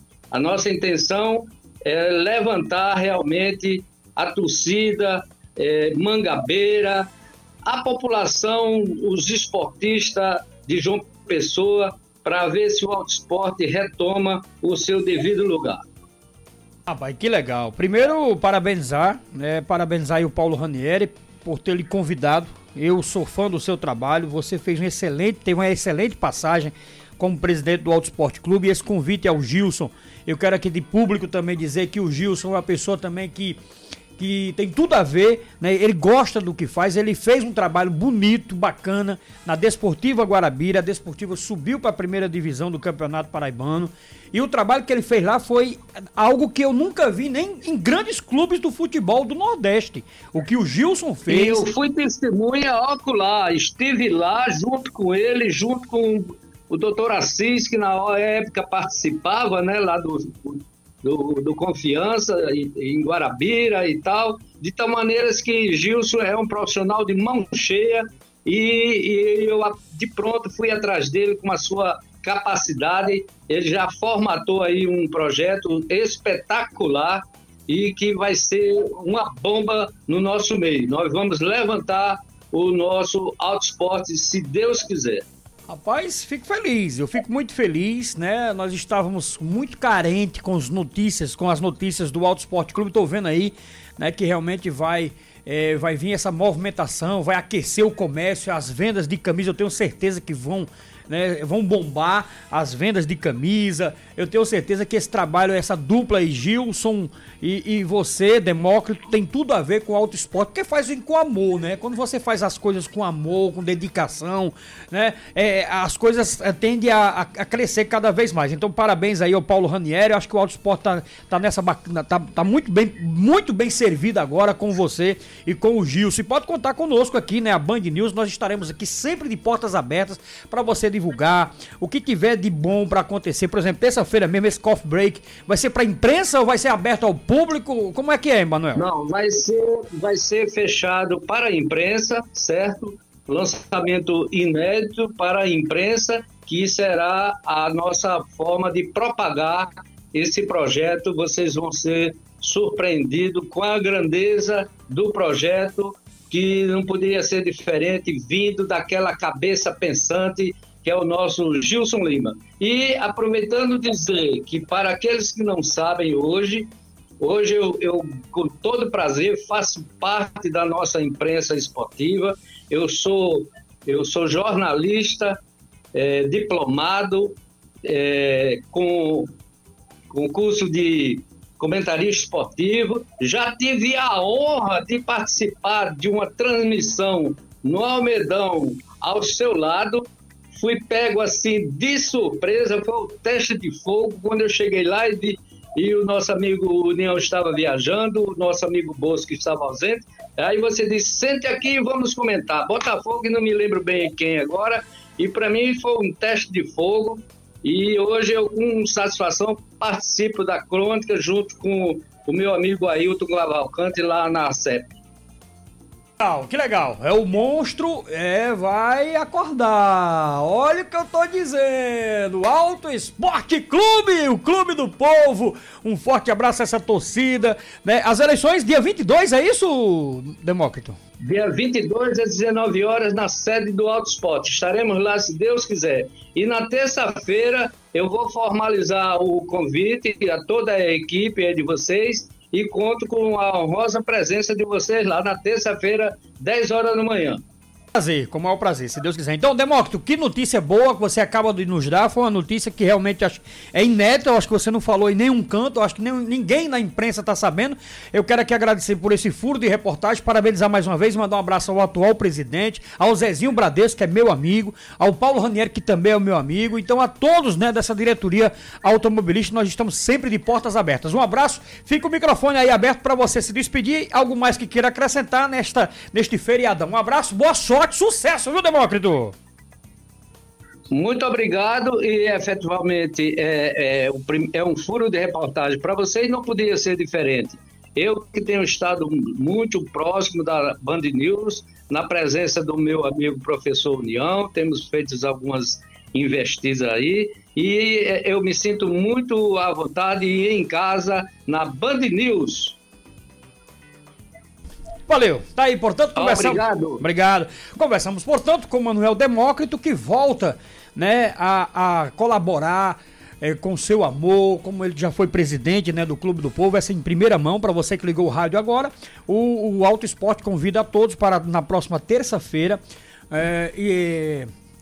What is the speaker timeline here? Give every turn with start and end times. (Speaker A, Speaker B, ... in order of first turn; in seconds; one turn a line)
Speaker A: 0.3-7.1
Speaker A: 7.6-15.8
Speaker B: 16.9-33.6
Speaker B: 34.2-51.6
Speaker A: 51.3-85.2
Speaker B: 85.7-138.8
Speaker A: 138.7-166.7
Speaker A: 167.2-175.4
Speaker A: 175.9-179.3
Speaker A: 180.1-214.9
Speaker B: 216.2-231.0
Speaker A: 231.2-247.4
Speaker B: 247.9-279.3
Speaker A: 280.9-302.8
Speaker B: 305.1-322.8
Speaker A: 306.1-307.0
Speaker B: 323.3-324.5